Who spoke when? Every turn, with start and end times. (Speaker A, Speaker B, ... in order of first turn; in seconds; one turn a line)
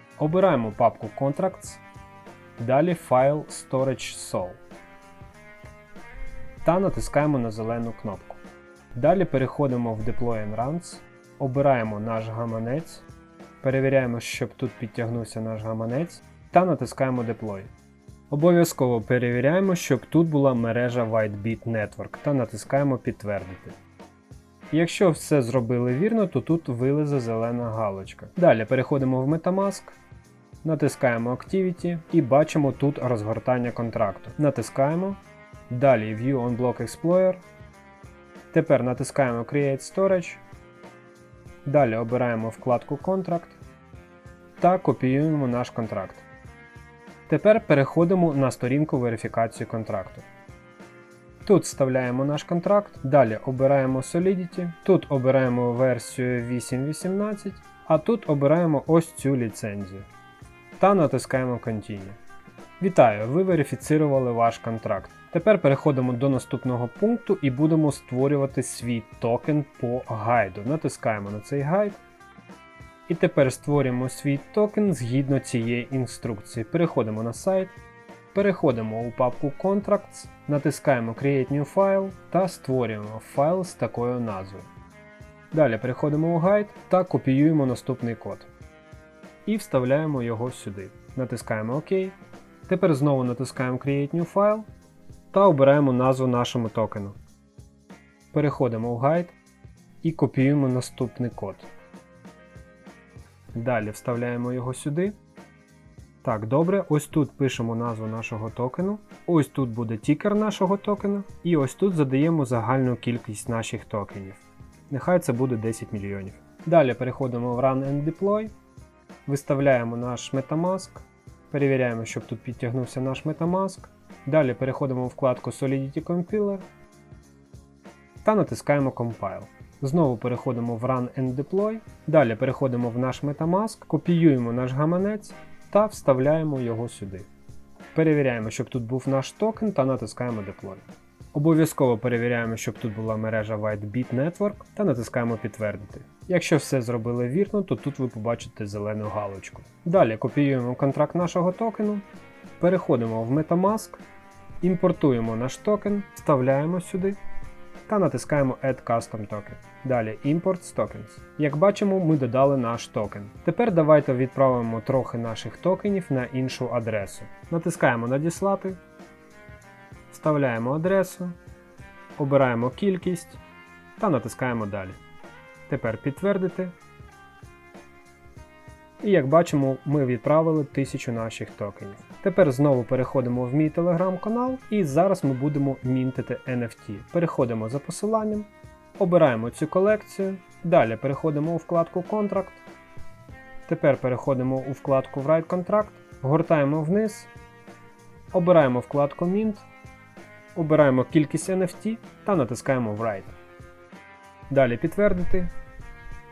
Speaker A: 0.2-1.8
Speaker A: 2.6-4.6
Speaker A: 6.6-8.4
Speaker A: 8.9-13.1
Speaker A: 13.6-17.7
Speaker A: 18.3-23.8
Speaker A: 24.7-30.0
Speaker A: 30.6-37.4
Speaker A: 38.5-40.4
Speaker A: 41.6-43.6
Speaker A: 44.6-46.2
Speaker A: 47.3-50.3
Speaker A: 51.4-60.1
Speaker A: 60.8-62.2
Speaker A: 62.8-72.0
Speaker A: 73.1-77.8
Speaker A: 78.3-84.7
Speaker A: 85.5-88.5
Speaker A: 89.5-94.7
Speaker A: 95.3-97.2
Speaker A: 98.3-99.4
Speaker A: 100.0-101.7
Speaker A: 103.5-105.2
Speaker A: 106.2-118.5
Speaker A: 119.3-126.6
Speaker A: 128.2-137.3
Speaker A: 137.9-152.1
Speaker A: 152.6-154.0
Speaker A: 154.6-157.2
Speaker A: 157.9-168.8
Speaker A: 170.1-171.4
Speaker A: 172.2-173.4
Speaker A: 174.0-175.0
Speaker A: 175.7-176.8
Speaker A: 179.0-192.6
Speaker A: 193.7-197.3
Speaker A: 198.3-199.7
Speaker A: 200.6-203.4
Speaker A: 204.5-205.5